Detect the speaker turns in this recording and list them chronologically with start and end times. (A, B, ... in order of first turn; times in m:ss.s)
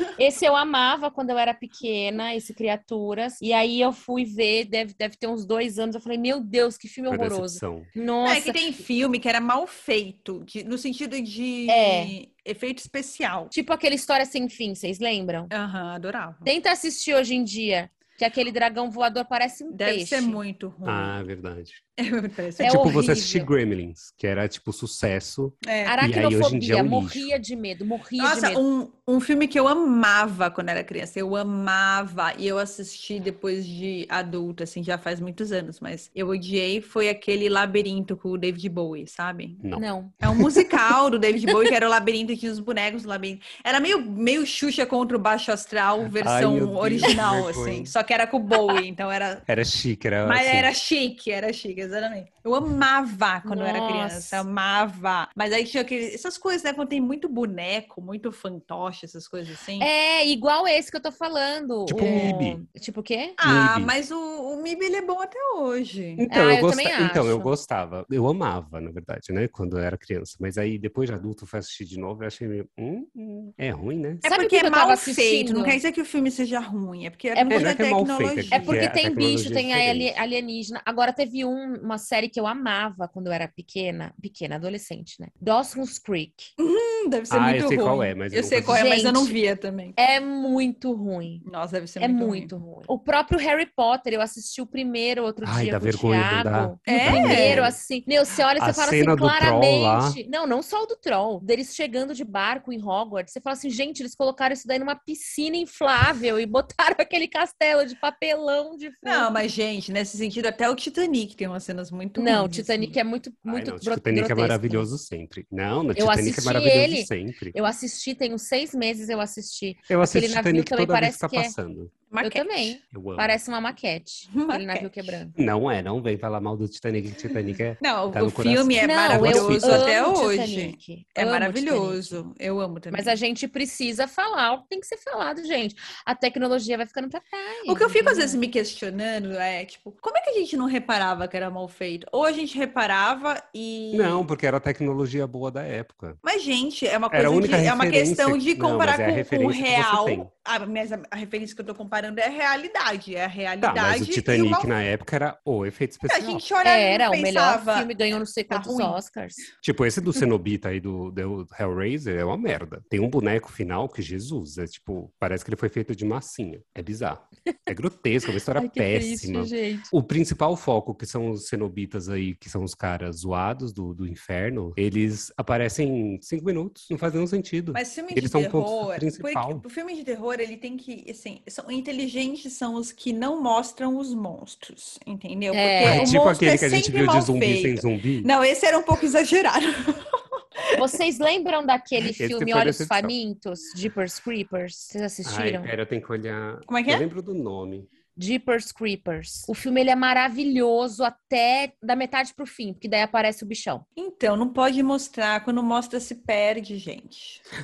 0:00.2-0:08.6 A
0:07.1-0:07.9 B
0:08.2-0:13.5 C
0:11.7-0:12.1 A
0:13.5-0:15.5 A
0:15.5-0:16.5 C
0:16.4-0:20.4 A
0:19.7-0:21.2 C
0:20.8-0:21.8 B
0:22.0-0:23.0 C
0:22.6-0:27.4 B
0:22.6-0:23.5 A
0:25.6-0:26.0 C
0:25.8-0:28.6 A
0:28.2-0:39.6 C
0:39.8-0:40.2 A
0:40.2-0:49.4 C
0:46.2-0:47.9 B
0:49.5-0:50.7 B
0:50.2-0:59.9 C
0:53.5-0:54.4 A
0:59.8-1:03.4 A
1:01.9-1:02.6 B
1:02.0-1:02.4 C
1:03.4-1:06.3 C
1:03.4-1:03.9 B
1:06.2-1:14.2 B
1:06.3-1:07.5 A
1:14.2-1:18.8 C
1:14.2-1:15.8 A
1:17.4-1:17.7 A
1:17.5-1:20.2 B
1:18.5-1:26.5 A
1:26.6-1:30.0 C
1:27.3-1:28.9 B
1:28.7-1:29.4 A
1:30.0-1:31.4 A
1:31.4-1:32.5 C
1:32.0-1:49.3 A
1:35.4-1:37.8 B
1:36.9-1:37.7 C
1:38.6-1:40.2 B
1:49.0-1:53.0 C
1:52.2-1:54.9 A
1:53.5-1:57.6 B
1:56.0-2:01.6 A
1:59.9-2:01.9 B
2:02.1-2:02.8 C
2:02.2-2:05.3 A
2:02.9-2:03.4 B
2:04.3-2:05.2 C
2:05.4-2:09.9 B
2:07.8-2:13.2 C
2:08.8-2:12.2 A
2:12.9-2:18.4 A
2:17.7-2:24.3 C
2:23.9-2:26.2 B
2:26.2-2:34.7 C
2:27.1-2:30.3 B
2:33.6-2:36.4 B
2:36.0-2:37.9 C
2:36.6-2:39.5 A
2:38.5-2:39.0 C
2:39.6-2:59.6 B
2:48.6-2:49.9 A
2:57.7-3:10.2 C
3:05.5-3:06.1 A
3:05.8-3:08.3 B
3:10.7-3:15.7 A
3:12.1-3:13.1 B
3:15.2-3:17.9 B
3:16.7-3:17.1 C
3:18.2-3:23.8 A
3:24.0-3:27.4 C